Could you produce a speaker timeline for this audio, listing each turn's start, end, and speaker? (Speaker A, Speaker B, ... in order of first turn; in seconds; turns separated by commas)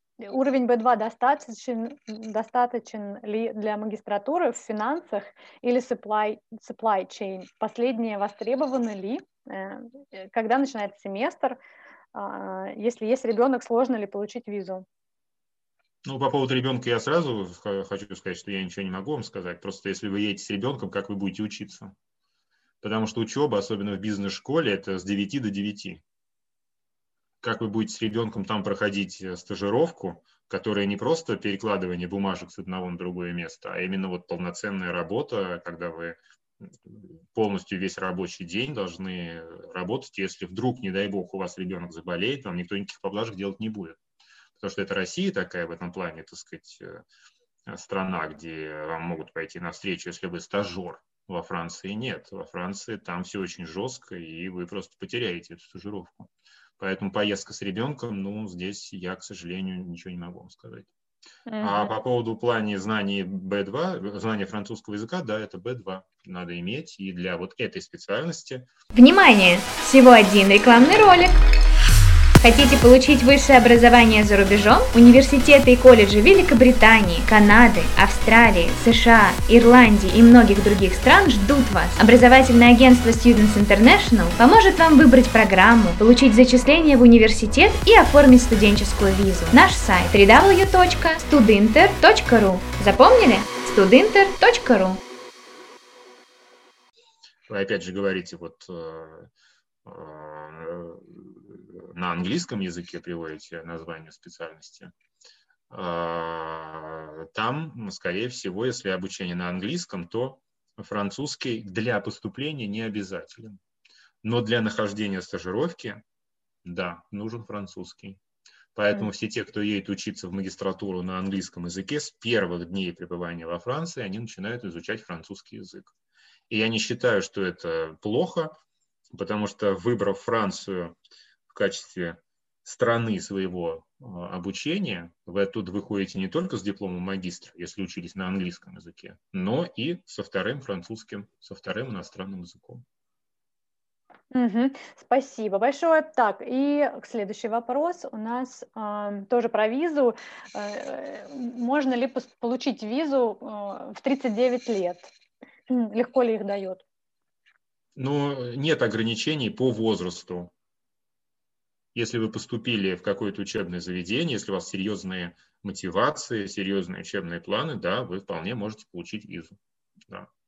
Speaker A: 0.2-11.6, Speaker A: 12.1-14.8, Speaker B: 16.0-21.9, Speaker B: 22.8-26.0, Speaker B: 27.4-44.0, Speaker B: 44.6-47.0, Speaker B: 47.7-60.9, Speaker A: 61.5-61.9, Speaker B: 61.6-68.7, Speaker C: 68.9-71.4, Speaker C: 72.4-95.0, Speaker B: 97.5-99.3, Speaker B: 99.8-104.9, Speaker B: 105.7-113.6, Speaker B: 114.2-116.0, Speaker B: 116.6-118.2, Speaker B: 118.7-125.9, Speaker B: 126.5-128.5, Speaker B: 129.1-131.0, Speaker B: 131.5-142.8, Speaker A: 144.3-155.1, Speaker A: 155.7-156.8, Speaker B: 157.9-160.5, Speaker B: 161.9-169.6